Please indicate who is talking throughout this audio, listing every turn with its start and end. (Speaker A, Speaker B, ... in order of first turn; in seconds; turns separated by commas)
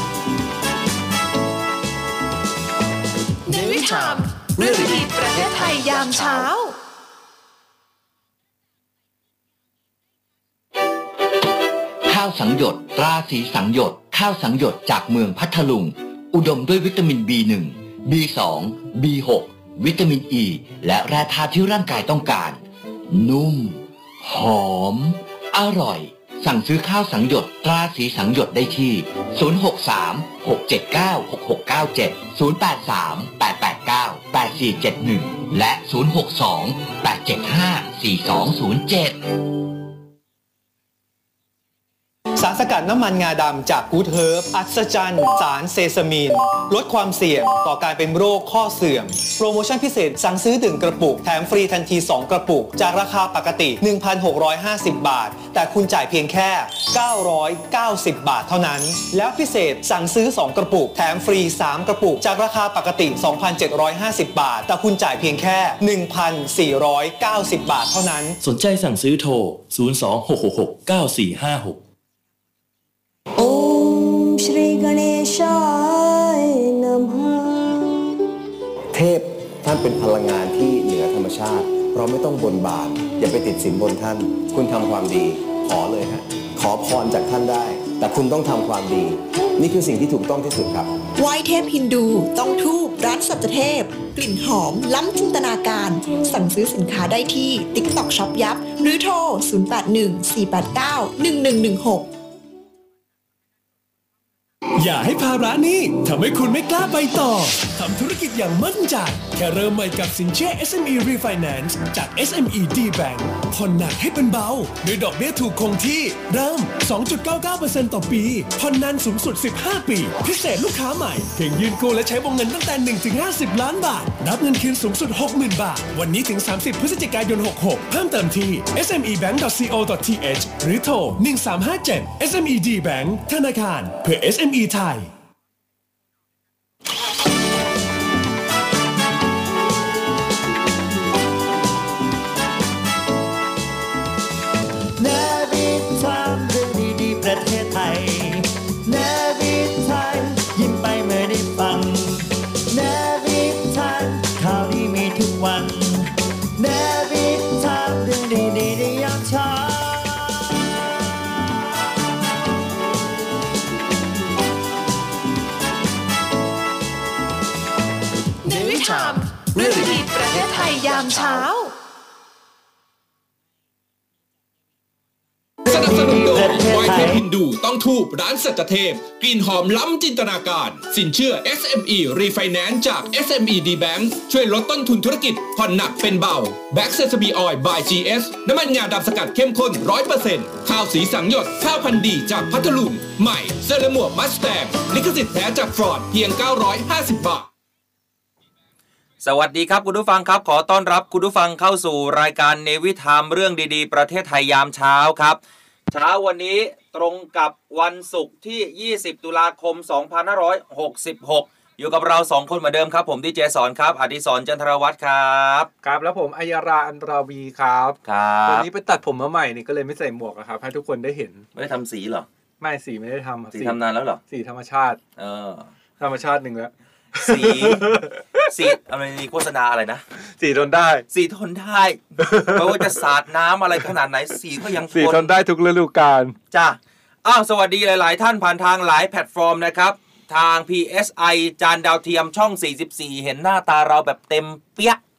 Speaker A: 3.4-6.8, Speaker B: 12.0-39.2, Speaker C: 42.4-68.4, Speaker D: 68.4-71.8, Speaker E: 73.4-78.0, Speaker F: 78.9-91.0, Speaker G: 91.2-102.1, Speaker H: 104.8-135.1, Speaker I: 145.0-160.7, Speaker A: 168.4-171.7, Speaker I: 175.7-177.2, Speaker J: 175.7-197.5, Speaker K: 199.2-205.4, Speaker K: 205.9-215.7, Speaker L: 215.8-221.4, Speaker K: 218.1-218.7, Speaker K: 221.6-222.2, Speaker L: 222.6-223.8, Speaker K: 223.5-224.2, Speaker L: 224.3-225.0, Speaker K: 225.2-225.7, Speaker L: 226.0-228.5, Speaker K: 227.2-227.9, Speaker K: 228.5-230.0, Speaker L: 230.4-231.0, Speaker K: 231.1-235.3, Speaker L: 232.2-233.0, Speaker L: 234.9-236.3, Speaker K: 236.5-245.0